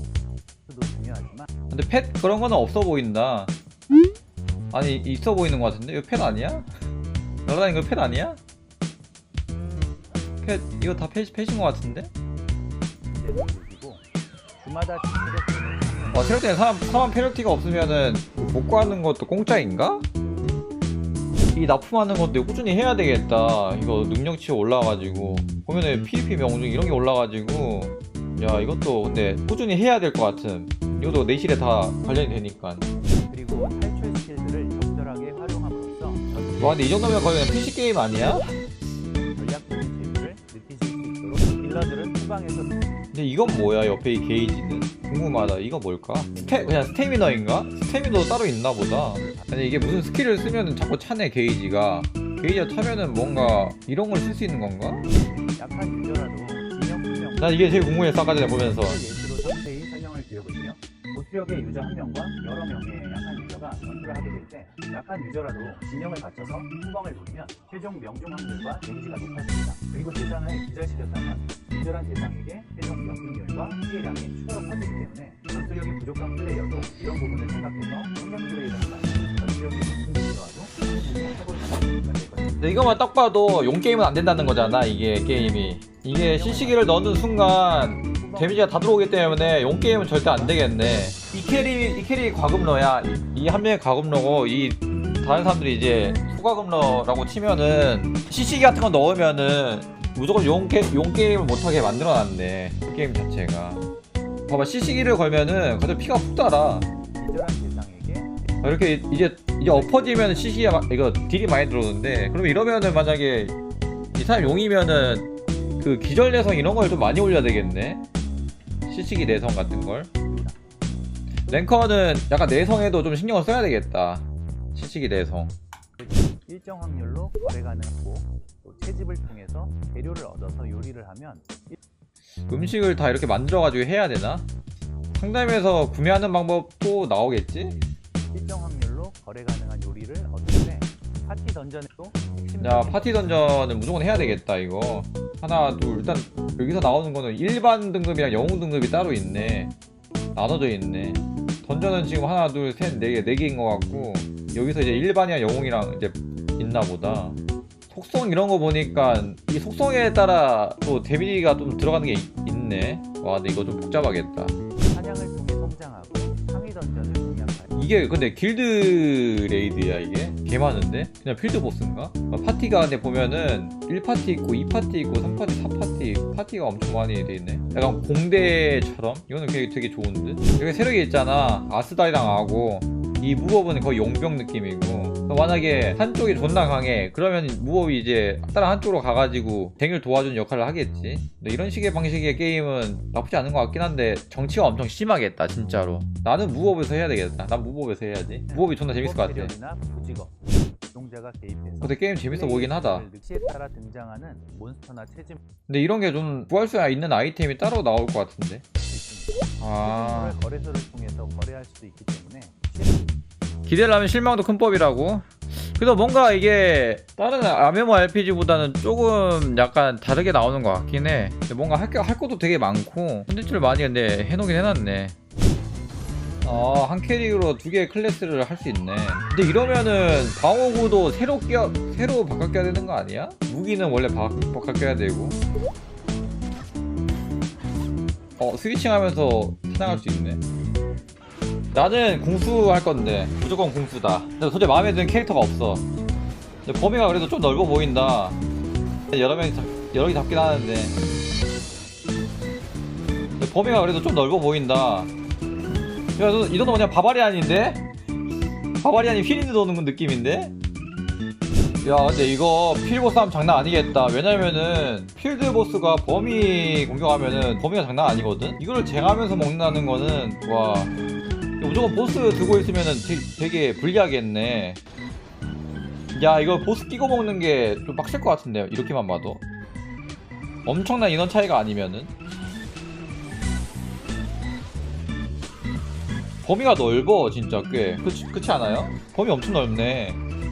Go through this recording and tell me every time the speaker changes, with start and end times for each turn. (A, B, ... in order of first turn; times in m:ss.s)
0:00.7-0:01.5 A
0:01.7-0:03.5 B
0:04.7-0:06.7 B
0:07.5-0:08.4 B
0:10.4-0:12.1 B
0:13.1-0:14.0 A
0:14.6-0:16.8 A
0:16.1-0:20.0 B
0:21.5-0:32.9 B
0:33.2-0:37.0 A
0:36.6-0:38.5 B
0:39.4-0:42.8 A
0:43.1-0:55.1 B
0:46.3-0:47.0 A
0:48.9-0:49.7 A
0:55.1-1:22.6 A
0:57.4-0:59.0 B
1:22.6-1:43.9 B
1:26.2-1:27.0 A
1:28.0-1:31.1 A
1:44.5-1:46.9 B
1:47.2-1:48.3 A
1:48.6-1:53.6 B
1:49.6-1:50.6 A
1:54.1-1:58.0 B
1:58.9-2:00.1 B
2:00.3-2:00.6 A
2:01.5-2:05.5 B
2:06.0-2:11.8 A
2:12.5-2:14.5 B
2:15.1-2:17.8 B
2:18.3-2:23.5 A
2:22.6-2:29.7 B
2:30.4-2:37.4 B
2:37.9-2:44.6 B
2:44.9-2:47.7 A
2:47.8-3:19.5 B
3:18.5-3:20.3 A
3:20.9-3:25.4 A
3:21.8-3:23.1 B
3:25.7-3:28.6 B
3:28.9-3:33.1 A
3:29.6-3:30.4 B
3:33.7-3:45.2 B
3:46.4-3:55.4 B
3:58.4-4:00.4 B
4:01.7-4:05.9 B
4:06.6-4:08.4 B
4:09.1-4:11.0 B
4:13.4-4:15.1 B
4:16.2-4:17.8 B
4:18.8-4:20.5 B
4:21.8-4:30.9 B
4:31.6-4:34.8 B
4:36.2-4:39.4 B
4:40.6-4:42.1 B
4:46.4-4:50.2 B